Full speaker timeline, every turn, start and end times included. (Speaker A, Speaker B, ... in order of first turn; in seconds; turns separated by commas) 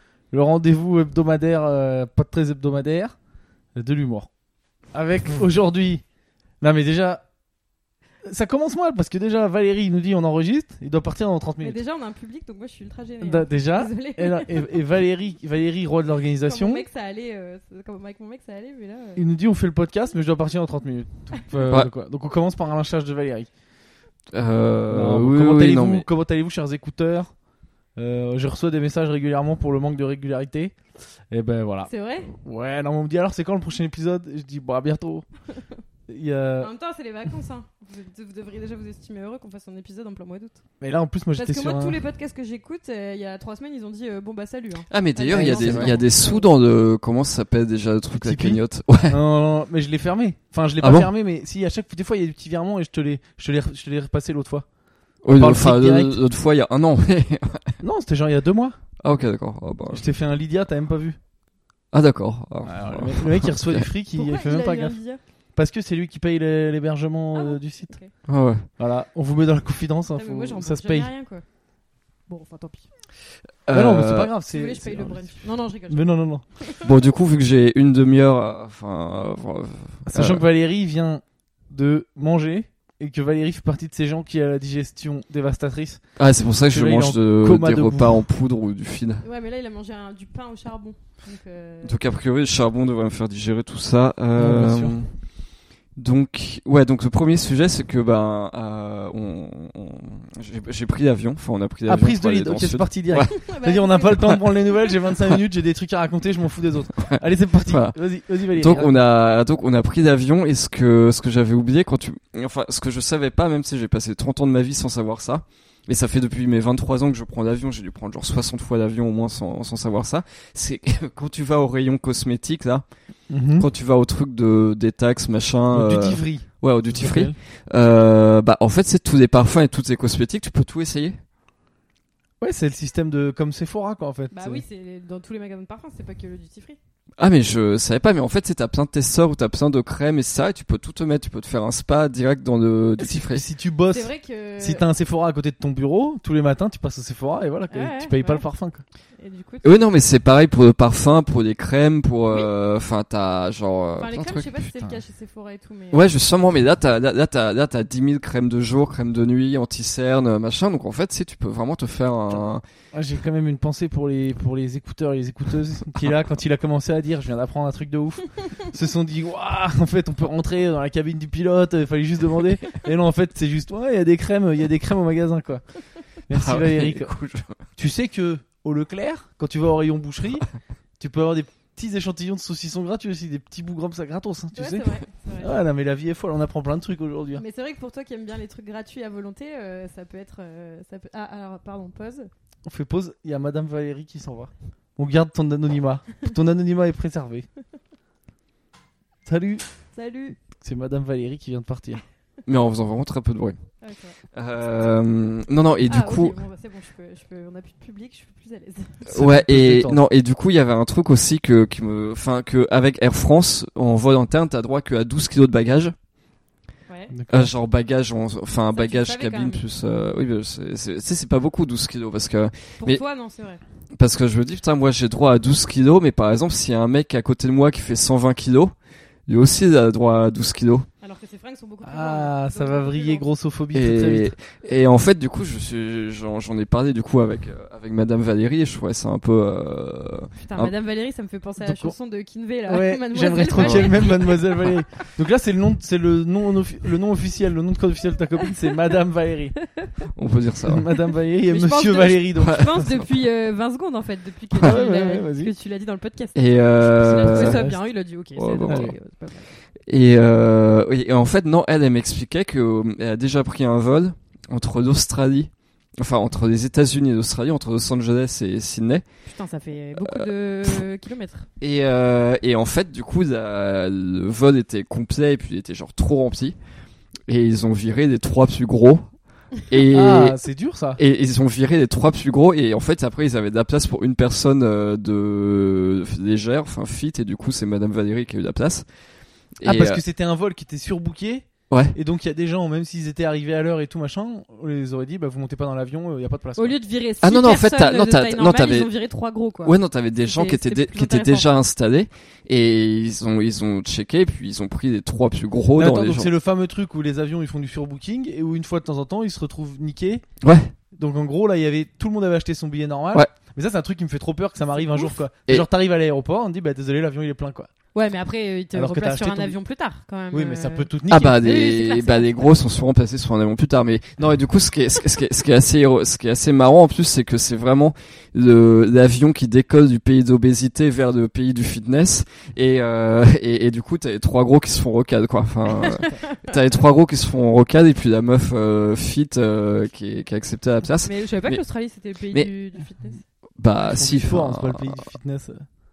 Speaker A: 0.3-3.1, Speaker A: 3.8-4.3, Speaker A: 4.9-6.0, Speaker A: 6.6-7.2, Speaker A: 8.2-11.8, Speaker B: 11.6-14.7, Speaker A: 13.2-16.8, Speaker B: 16.4-19.2, Speaker A: 19.1-23.5, Speaker C: 24.3-26.1, Speaker A: 24.9-27.3, Speaker A: 27.9-30.7, Speaker A: 31.3-35.2, Speaker B: 31.9-32.3, Speaker A: 36.1-36.7, Speaker B: 36.6-40.6, Speaker A: 40.8-42.0, Speaker B: 41.4-46.4, Speaker C: 44.9-49.2, Speaker A: 45.3-46.0, Speaker A: 48.2-54.6, Speaker C: 50.8-51.1, Speaker C: 55.2-57.8, Speaker A: 55.3-56.2, Speaker A: 57.8-58.8, Speaker C: 59.0-60.0, Speaker A: 59.9-61.2, Speaker C: 61.9-63.9, Speaker A: 62.6-65.0, Speaker B: 64.2-65.2, Speaker A: 65.5-68.0, Speaker B: 67.3-68.1, Speaker C: 68.2-68.6, Speaker A: 68.8-71.1, Speaker B: 70.2-71.4, Speaker B: 72.3-72.8, Speaker C: 73.7-74.3, Speaker A: 73.7-76.4, Speaker B: 74.5-76.8, Speaker C: 76.8-80.4, Speaker A: 80.1-86.0, Speaker C: 86.2-89.2, Speaker A: 86.7-88.2, Speaker B: 89.2-92.0, Speaker C: 91.8-95.1, Speaker A: 94.3-95.0, Speaker C: 96.0-103.4, Speaker A: 101.9-108.9, Speaker B: 103.3-105.0, Speaker C: 107.7-107.9, Speaker C: 108.6-122.8, Speaker A: 123.3-123.7, Speaker C: 123.6-131.2, Speaker A: 125.7-127.3, Speaker A: 132.4-134.6, Speaker B: 134.3-136.8, Speaker C: 137.2-143.4, Speaker A: 143.0-148.8, Speaker B: 143.9-144.8, Speaker B: 147.7-148.4, Speaker B: 149.2-149.6, Speaker C: 149.6-154.7, Speaker B: 154.0-156.1, Speaker C: 155.9-162.6, Speaker A: 162.9-175.6, Speaker A: 176.3-177.1, Speaker C: 176.3-177.6, Speaker A: 177.8-180.5, Speaker A: 181.0-184.8, Speaker B: 184.6-185.5, Speaker A: 185.4-187.4, Speaker B: 187.3-192.3, Speaker A: 192.6-197.5, Speaker A: 199.2-199.6, Speaker B: 199.9-200.4, Speaker A: 200.4-202.0, Speaker C: 202.4-203.6, Speaker B: 203.8-204.2, Speaker C: 204.3-206.4, Speaker B: 205.8-209.1, Speaker A: 209.1-210.0, Speaker C: 209.1-215.9, Speaker A: 217.1-217.5, Speaker C: 217.3-223.0, Speaker B: 218.7-219.6, Speaker B: 222.8-223.6, Speaker C: 223.9-228.7, Speaker C: 229.3-230.9, Speaker B: 231.0-233.2, Speaker A: 231.8-234.3, Speaker C: 233.7-240.7, Speaker B: 240.4-244.7, Speaker A: 241.6-241.9, Speaker A: 242.7-249.6, Speaker C: 243.5-243.9, Speaker C: 250.1-250.9, Speaker A: 250.7-252.9, Speaker B: 251.0-259.5, Speaker C: 252.4-253.0, Speaker C: 254.5-254.8, Speaker A: 254.6-255.5, Speaker C: 256.4-257.7, Speaker A: 257.0-257.8, Speaker C: 258.4-258.9, Speaker A: 258.7-258.9, Speaker C: 259.9-269.1, Speaker B: 269.3-271.4, Speaker C: 270.0-270.2, Speaker C: 271.6-276.6, Speaker C: 277.3-279.0, Speaker C: 279.7-280.4, Speaker A: 279.9-281.0, Speaker C: 281.0-288.9, Speaker C: 289.6-290.0, Speaker A: 289.6-296.7, Speaker B: 296.6-299.8, Speaker C: 297.2-298.9, Speaker C: 299.6-306.3, Speaker B: 300.3-301.6, Speaker A: 305.7-310.2, Speaker C: 310.4-310.7, Speaker A: 311.0-317.7, Speaker B: 317.9-322.5, Speaker A: 318.7-319.6, Speaker A: 320.3-321.4, Speaker C: 321.1-341.6, Speaker B: 335.8-336.3, Speaker B: 341.0-343.2, Speaker C: 343.6-344.9, Speaker A: 343.8-345.6